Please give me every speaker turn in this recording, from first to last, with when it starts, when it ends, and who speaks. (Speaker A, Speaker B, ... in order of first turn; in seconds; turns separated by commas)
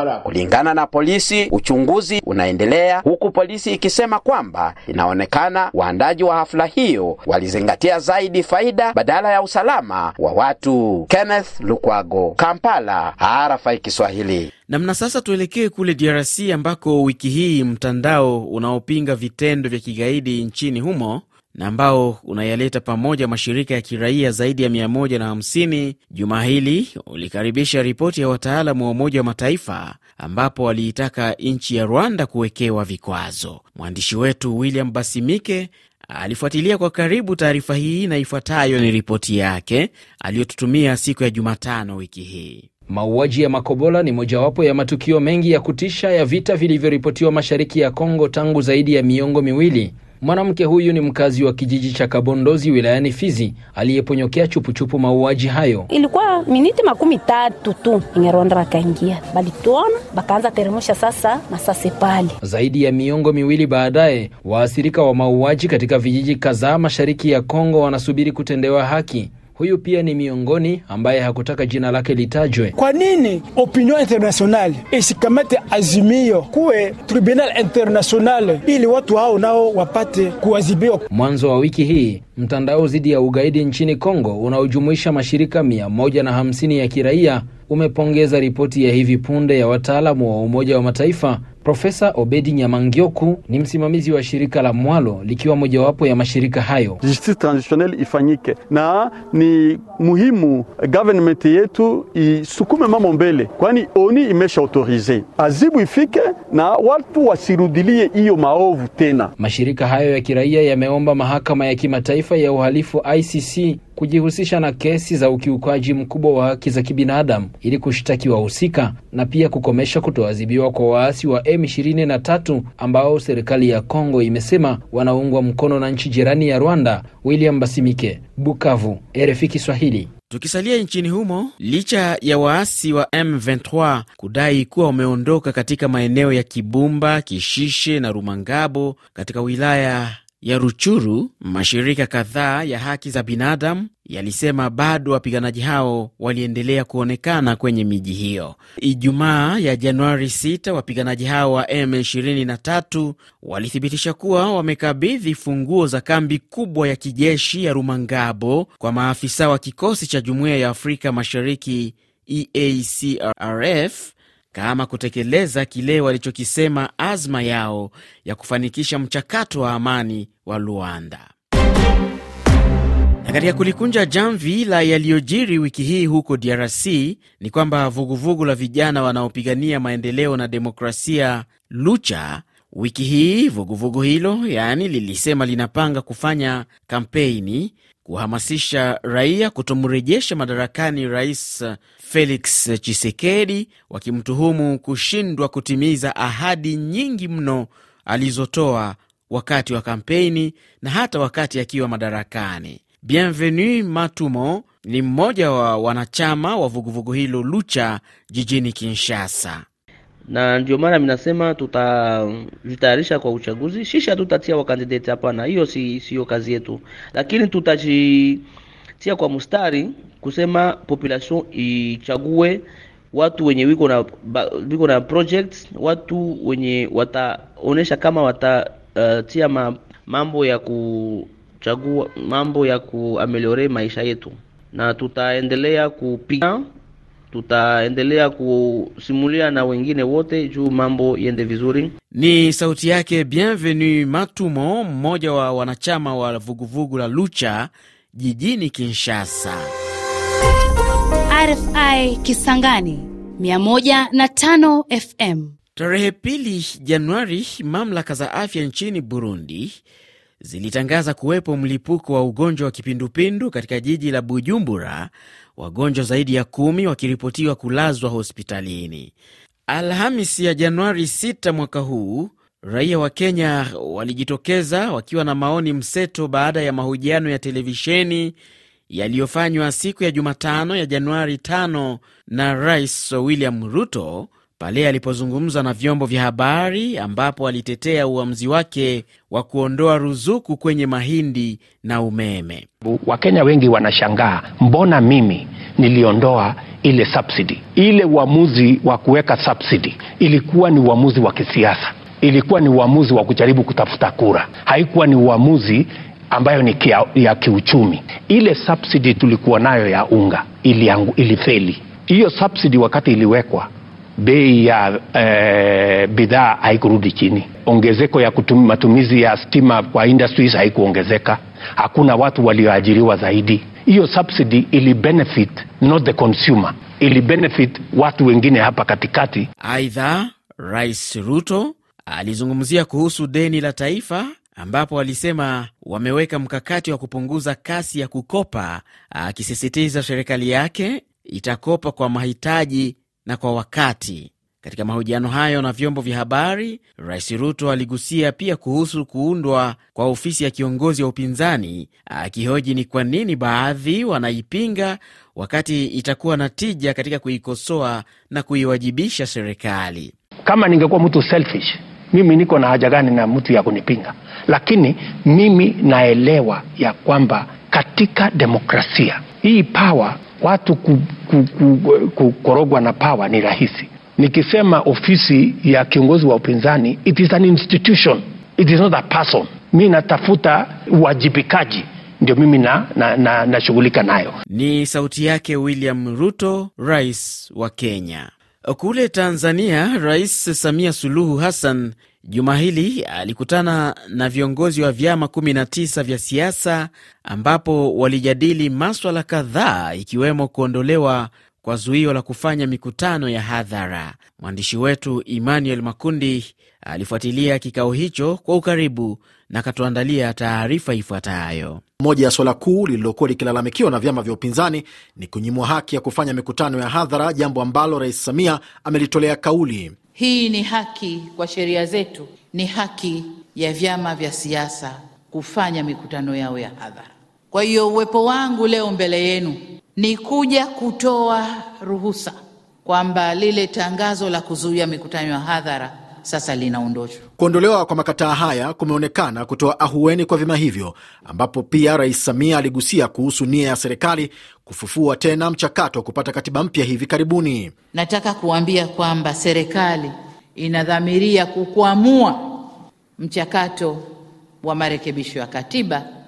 Speaker A: 0.3-14.5, Speaker B: 14.7-42.7, Speaker C: 42.9-55.9, Speaker D: 55.9-62.3, Speaker C: 62.4-72.7, Speaker E: 72.8-81.0, Speaker C: 81.1-97.0, Speaker F: 97.0-109.3, Speaker C: 109.4-130.1, Speaker B: 130.3-171.3, Speaker B: 173.2-209.6, Speaker G: 210.3-218.4, Speaker G: 219.0-222.6, Speaker G: 223.1-236.6, Speaker G: 237.3-241.9, Speaker B: 242.1-249.7, Speaker G: 251.3-255.5, Speaker B: 255.8-259.8, Speaker B: 260.4-269.1, Speaker B: 269.7-278.4, Speaker B: 278.9-292.7, Speaker H: 292.9-313.7, Speaker H: 314.2-329.5, Speaker B: 329.6-360.1, Speaker H: 360.4-384.3, Speaker B: 384.5-411.8, Speaker I: 412.0-419.9, Speaker J: 420.1-437.2, Speaker I: 437.4-447.7, Speaker J: 447.9-454.0, Speaker J: 454.6-456.1